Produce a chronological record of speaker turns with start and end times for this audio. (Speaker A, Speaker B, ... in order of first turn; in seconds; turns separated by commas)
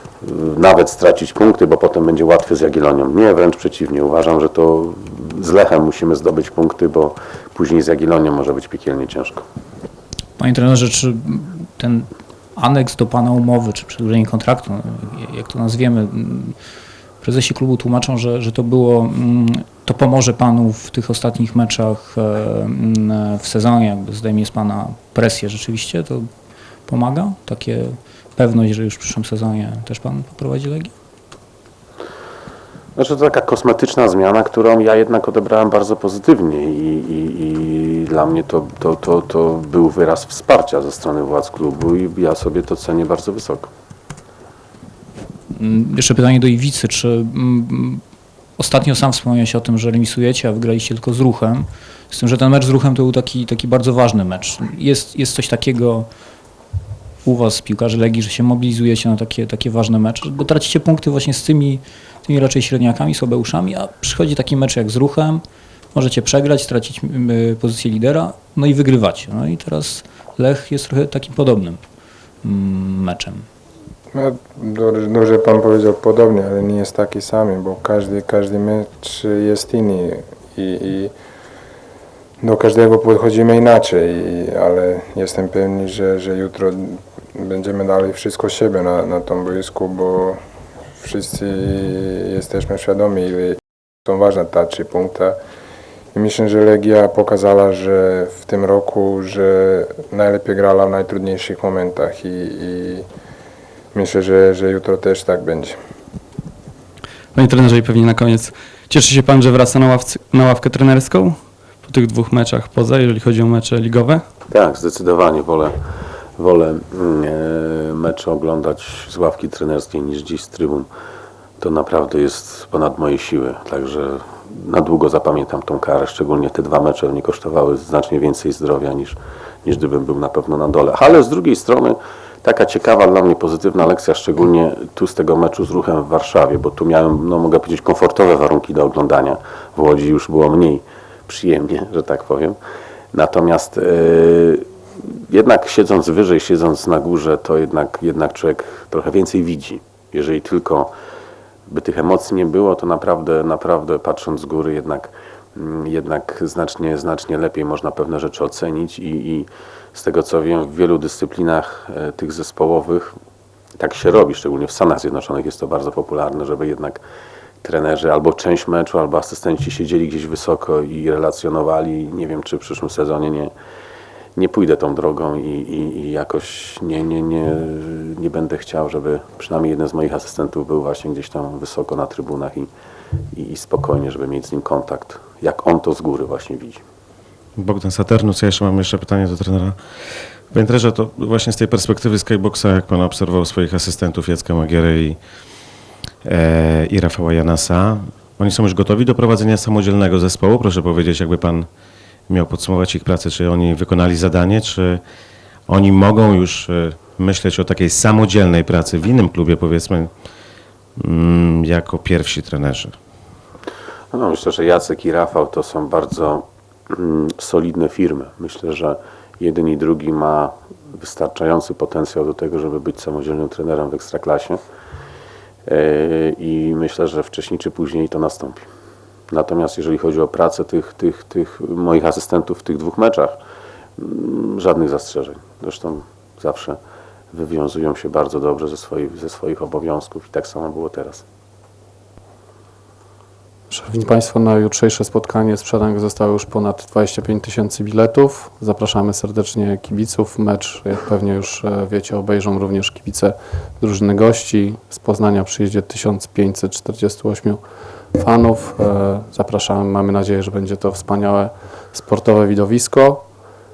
Speaker A: 0.2-9.4, Speaker B: 10.4-16.5, Speaker B: 17.2-26.3, Speaker B: 26.9-30.9, Speaker A: 33.0-43.7, Speaker B: 45.5-48.0, Speaker B: 48.6-56.1, Speaker B: 57.2-65.4, Speaker B: 65.9-71.8, Speaker B: 72.4-73.5, Speaker C: 74.1-81.1, Speaker C: 82.4-90.4, Speaker C: 91.0-95.3, Speaker C: 96.1-103.0, Speaker C: 103.9-105.8, Speaker D: 107.3-114.2, Speaker A: 114.5-115.7, Speaker A: 116.4-120.9, Speaker A: 121.6-142.6, Speaker A: 143.1-144.7, Speaker A: 145.3-150.9, Speaker A: 151.7-163.1, Speaker A: 163.8-167.0, Speaker A: 167.6-173.5, Speaker A: 174.4-182.7, Speaker A: 183.3-186.8, Speaker E: 187.6-189.8, Speaker E: 190.5-195.2, Speaker E: 196.2-201.7, Speaker E: 202.3-205.0, Speaker E: 205.7-210.1, Speaker E: 211.0-212.9, Speaker A: 214.1-224.6, Speaker A: 225.7-228.7, Speaker A: 229.3-233.4, Speaker A: 234.0-236.8, Speaker A: 237.3-241.2, Speaker F: 243.7-263.3